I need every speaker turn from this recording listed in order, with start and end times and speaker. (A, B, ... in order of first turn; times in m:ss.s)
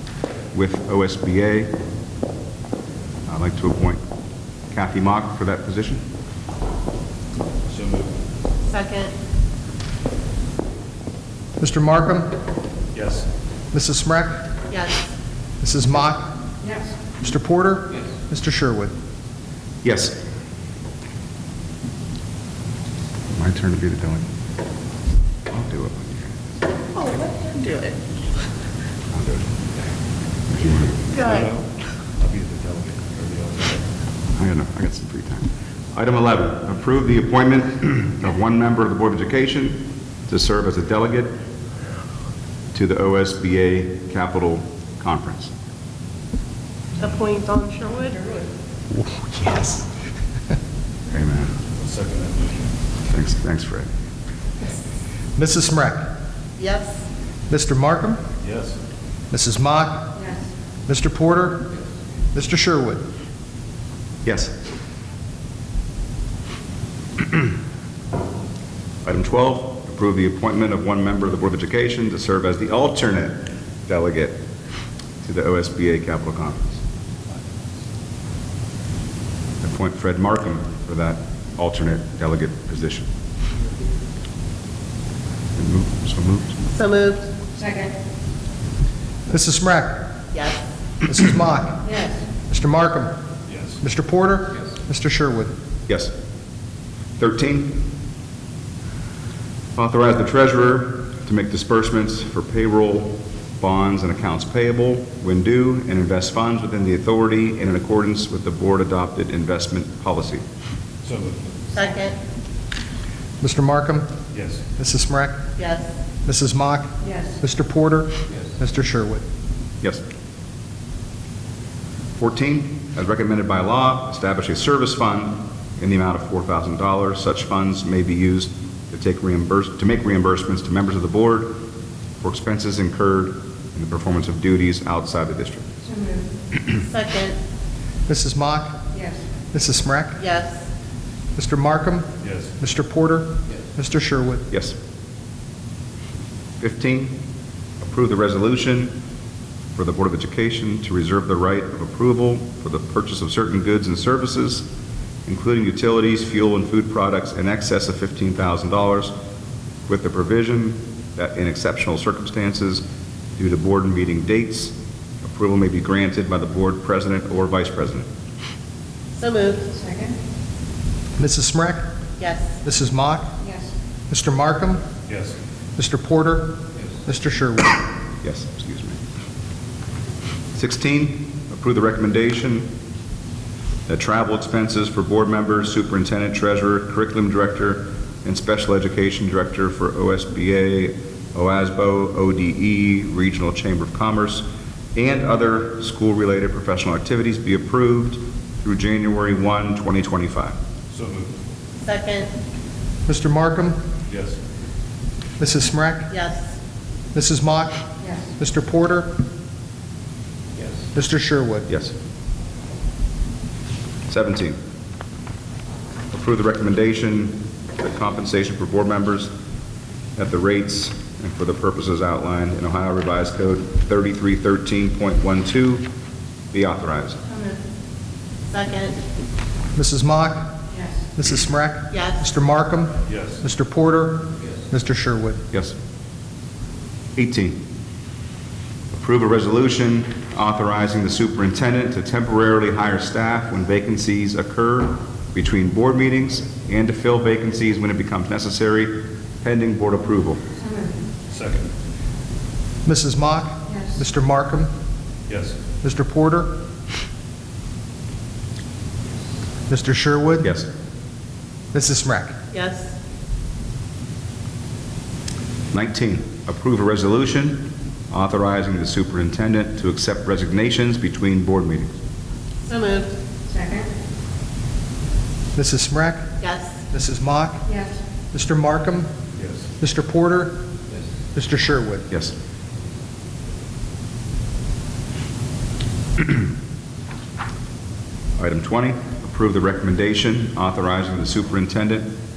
0:00.5-0:01.7 A
0:03.3-0:04.0 A
0:04.7-0:06.0 A
0:07.7-0:08.1 B
0:08.7-0:09.1 C
0:11.6-0:12.4 D
0:13.0-0:13.3 B
0:13.7-0:14.5 D
0:14.7-0:15.1 C
0:15.6-0:16.4 D
0:17.0-0:19.0 D
0:19.8-0:20.2 A
0:23.3-0:24.3 A
0:25.5-0:26.5 A
0:27.0-0:28.0 C
0:29.1-0:29.5 A
0:30.5-0:31.1 A
0:31.2-0:31.5 C
0:31.2-0:31.7 B
0:32.2-0:33.8 B
0:34.3-0:41.4 A
0:42.7-0:45.5 A
0:47.0-0:48.5 C
0:49.0-0:49.9 D
0:51.1-0:51.6 A
0:51.8-0:52.6 B
0:53.0-0:53.9 A
0:55.4-0:56.1 D
0:56.6-0:57.0 C
0:57.5-0:58.2 D
0:58.4-0:58.8 B
0:59.3-1:00.3 D
1:00.9-1:01.7 D
1:02.3-1:03.1 D
1:04.2-1:04.6 A
1:09.0-1:14.4 A
1:15.2-1:16.8 A
1:19.6-1:23.1 A
1:25.6-1:26.6 A
1:26.7-1:27.3 C
1:29.3-1:30.2 D
1:30.3-1:30.6 C
1:31.0-1:33.2 D
1:33.5-1:33.8 B
1:33.8-1:35.5 D
1:35.9-1:36.1 A
1:37.2-1:37.9 A
1:39.8-1:50.4 A
1:51.0-1:51.4 B
1:51.7-1:52.2 C
1:53.4-1:54.2 D
1:54.3-1:54.6 B
1:54.7-1:55.4 D
1:55.6-1:55.9 C
1:56.2-1:59.2 D
2:02.2-2:11.6 A
2:12.2-2:15.8 A
2:16.6-2:17.4 C
2:18.1-2:20.2 D
2:20.2-2:20.7 C
2:21.4-2:24.5 D
2:22.2-2:22.5 B
2:24.5-2:24.8 A
2:26.6-2:27.2 A
2:27.8-2:29.0 A
2:29.8-2:34.7 A
2:35.3-2:39.1 A
2:39.9-2:42.8 A
2:43.4-2:48.1 A
2:49.2-2:49.8 C
2:51.2-2:51.9 D
2:52.2-2:52.6 C
2:52.6-2:53.5 D
2:54.1-2:54.8 D
2:55.1-2:55.4 B
2:55.8-2:57.9 D
2:58.2-2:59.0 A
3:00.6-3:02.7 A
3:03.9-3:20.6 A
3:20.9-3:21.3 B
3:21.8-3:22.3 C
3:23.1-3:23.8 D
3:24.1-3:24.4 B
3:25.4-3:26.1 D
3:26.1-3:26.6 C
3:27.1-3:29.2 D
3:30.9-3:31.7 D
3:31.7-3:32.0 A
3:34.1-3:34.6 A
3:36.1-3:39.3 A
3:40.2-3:45.9 A
3:46.5-3:47.2 A
3:47.3-3:47.6 C
3:48.5-3:49.0 C
3:49.7-3:50.6 D
3:51.1-3:55.4 D
3:51.9-3:52.2 C
3:53.1-3:53.4 B
3:57.2-3:57.6 A
3:58.9-4:10.4 A
4:11.3-4:11.7 B
4:12.8-4:14.7 D
4:15.3-4:15.6 B
4:15.8-4:16.6 D
4:19.7-4:20.6 D
4:20.4-4:20.7 A
4:21.7-4:22.4 D
4:22.5-4:22.9 C
4:25.7-4:32.0 A
4:32.6-4:33.2 C
4:35.6-4:39.1 D
4:36.4-4:36.8 C
4:39.4-4:39.7 B
4:39.8-4:40.6 D
4:41.3-4:42.1 D
4:48.4-4:52.1 A